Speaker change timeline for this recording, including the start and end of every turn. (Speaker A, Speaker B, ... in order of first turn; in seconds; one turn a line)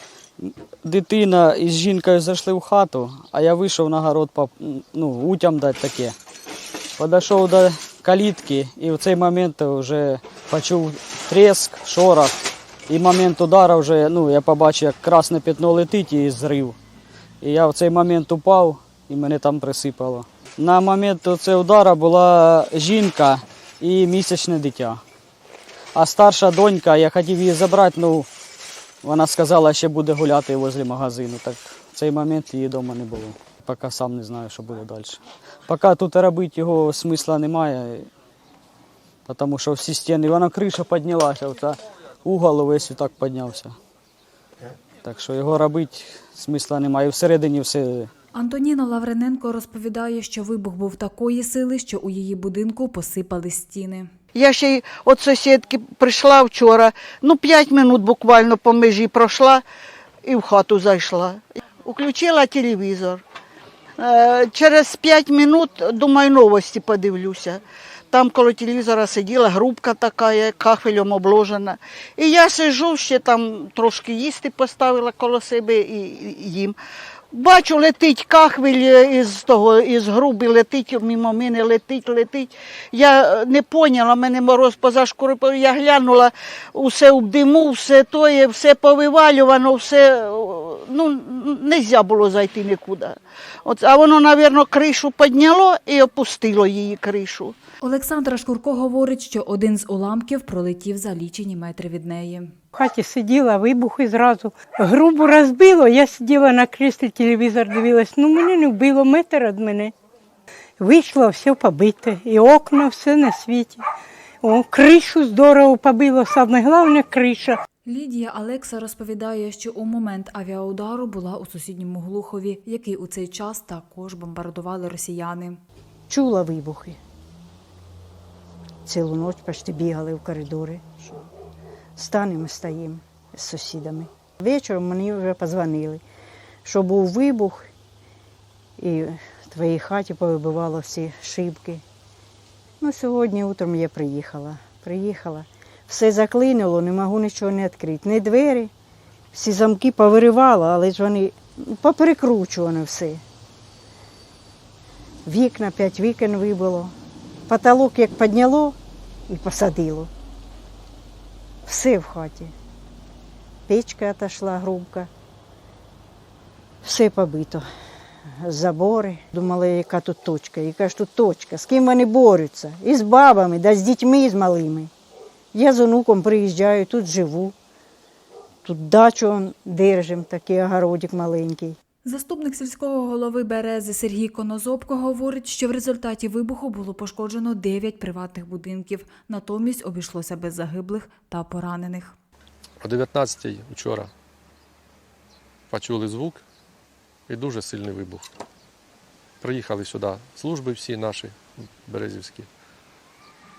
Speaker A: 0.4-6.1
Speaker A: 7.0-16.8
Speaker A: 17.4-25.0
Speaker A: 25.9-28.3
Speaker A: 29.0-38.1
Speaker A: 39.2-43.7
Speaker A: 45.0-48.1
Speaker B: 48.3-54.1
Speaker C: 54.3-59.6
Speaker C: 60.2-63.2
Speaker C: 64.0-67.6
Speaker C: 68.1-76.8
Speaker C: 77.3-97.5
Speaker B: 97.8-102.5
Speaker D: 102.7-109.9
Speaker D: 110.8-113.8
Speaker D: 114.4-117.6
Speaker B: 117.8-125.6
Speaker E: 126.1-127.0
Speaker E: 128.8-131.2
Speaker E: 132.0-136.0
Speaker E: 136.6-137.7
Speaker E: 138.8-141.8
Speaker E: 142.8-148.7
Speaker E: 149.3-153.2
Speaker E: 155.2-156.9
Speaker E: 157.5-158.8
Speaker E: 159.3-160.1
Speaker E: 161.6-162.5
Speaker E: 163.7-165.1
Speaker E: 166.8-167.6
Speaker E: 168.4-174.9
Speaker E: 175.5-177.5
Speaker E: 178.6-181.8
Speaker B: 182.0-192.1
Speaker F: 192.8-194.1
Speaker F: 195.7-196.4
Speaker F: 197.3-198.3
Speaker F: 199.4-202.5